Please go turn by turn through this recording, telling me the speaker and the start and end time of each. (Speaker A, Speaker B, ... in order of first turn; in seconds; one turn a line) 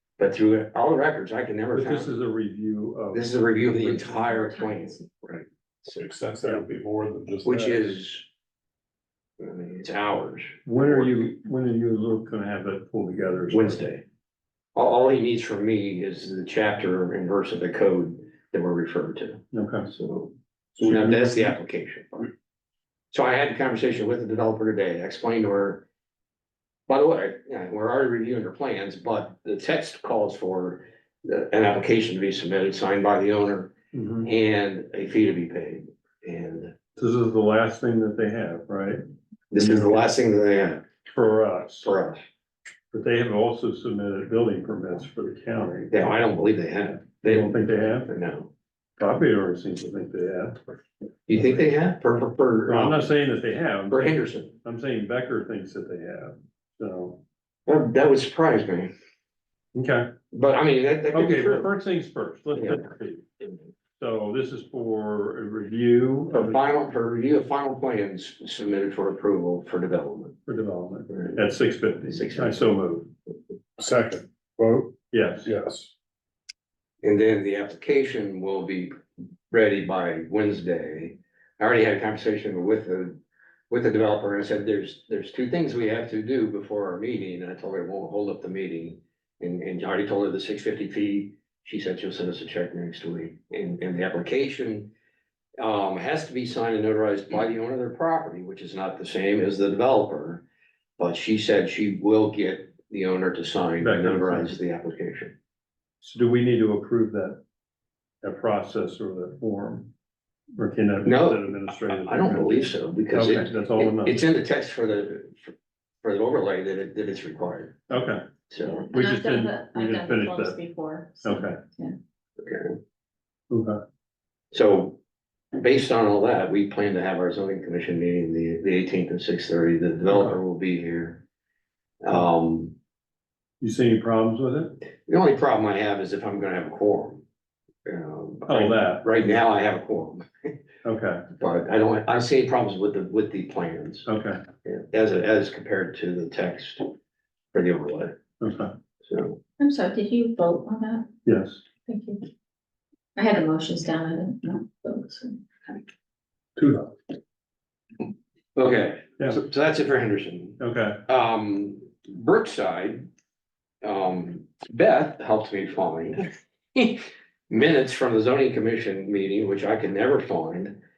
Speaker A: 0.2-2.1
Speaker B: 1.7-4.1
Speaker A: 3.1-6.0
Speaker C: 4.1-5.1
Speaker D: 6.0-7.8
Speaker A: 7.5-8.3
Speaker A: 9.4-11.3
Speaker B: 10.7-13.8
Speaker A: 13.5-14.0
Speaker A: 14.8-22.3
Speaker B: 19.5-19.9
Speaker B: 20.8-21.2
Speaker A: 23.1-25.9
Speaker A: 26.9-33.7
Speaker B: 33.9-34.3
Speaker A: 34.2-36.7
Speaker B: 37.0-39.0
Speaker A: 39.5-40.8
Speaker B: 39.6-40.0
Speaker B: 41.1-41.9
Speaker A: 41.8-42.2
Speaker B: 42.9-46.1
Speaker A: 45.9-48.5
Speaker B: 47.2-48.1
Speaker B: 49.0-50.6
Speaker A: 51.3-53.2
Speaker B: 52.7-57.2
Speaker A: 53.9-54.6
Speaker A: 57.7-58.9
Speaker B: 59.8-60.1
Speaker A: 60.3-61.7
Speaker B: 61.1-63.3
Speaker B: 64.0-66.6
Speaker A: 66.3-70.4
Speaker B: 70.5-73.1
Speaker A: 72.1-72.8
Speaker D: 73.8-74.9
Speaker B: 75.1-75.5
Speaker D: 75.5-75.9
Speaker A: 77.0-78.9
Speaker A: 79.5-83.2
Speaker A: 83.7-94.9
Speaker A: 95.6-100.4
Speaker A: 101.0-105.3
Speaker B: 103.8-104.5
Speaker B: 106.0-107.4
Speaker B: 108.2-109.9
Speaker B: 110.6-114.2
Speaker A: 111.0-118.9
Speaker B: 117.9-118.2
Speaker C: 118.6-122.0
Speaker B: 118.9-120.6
Speaker B: 121.2-121.6
Speaker A: 122.4-122.8
Speaker B: 123.5-123.8
Speaker A: 124.5-125.0
Speaker A: 125.5-131.2
Speaker B: 130.1-130.4
Speaker A: 132.0-132.8
Speaker B: 133.6-134.7
Speaker A: 135.1-137.2
Speaker A: 137.9-140.5
Speaker B: 138.5-139.1
Speaker B: 140.8-141.2
Speaker A: 141.4-144.1
Speaker B: 144.1-144.4
Speaker A: 144.7-146.9
Speaker A: 147.5-148.2
Speaker B: 148.4-148.7
Speaker A: 149.1-149.4
Speaker C: 149.6-151.1
Speaker B: 151.2-151.6
Speaker C: 151.9-152.2
Speaker C: 153.2-155.4
Speaker A: 158.6-163.1
Speaker B: 160.6-161.0
Speaker A: 163.8-166.2
Speaker A: 166.8-170.8